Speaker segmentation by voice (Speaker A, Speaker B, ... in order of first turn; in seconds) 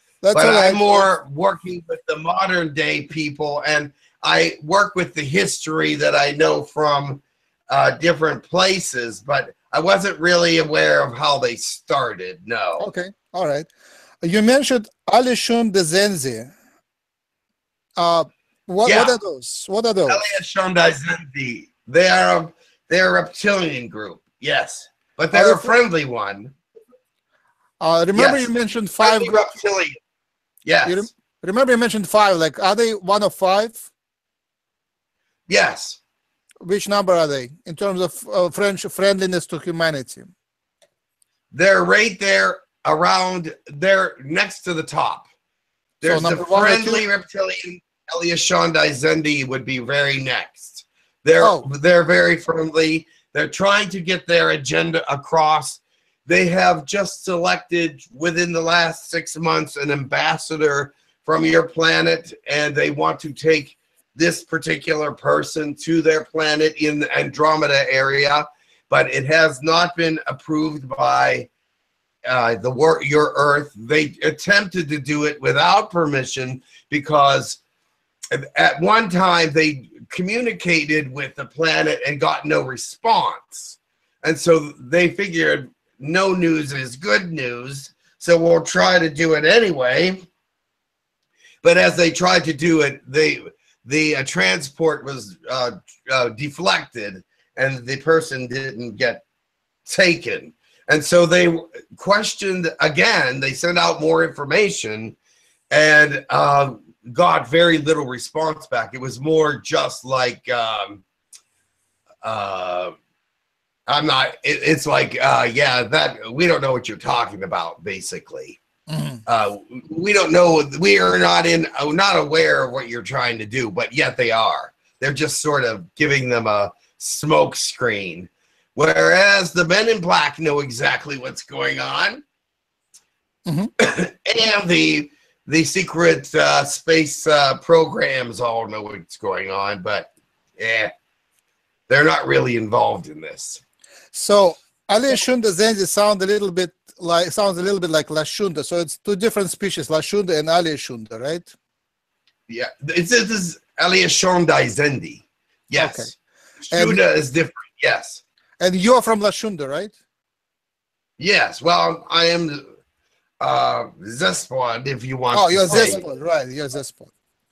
Speaker A: 0.2-0.9, 12.8-13.7, 14.2-16.5, 18.0-20.2, 25.3-25.7, 27.8-29.5, 30.9-33.9, 36.6-40.3, 46.0-47.0, 51.4-51.7, 118.9-119.2, 144.1-151.5, 155.8-156.1, 156.7-157.0, 158.6-159.9, 165.3-167.1
Speaker B: 0.3-12.9, 18.9-19.2, 20.1-26.5, 28.1-30.0, 30.6-31.1, 35.5-36.0, 41.5-45.3, 46.0-71.5, 72.2-77.6, 78.3-90.2, 91.6-99.2, 99.9-105.2, 105.7-111.0, 112.2-113.0, 113.9-118.6, 119.3-132.2, 133.8-140.9, 141.9-143.6, 152.5-156.1, 156.7-158.2, 161.2-162.7, 163.4-166.0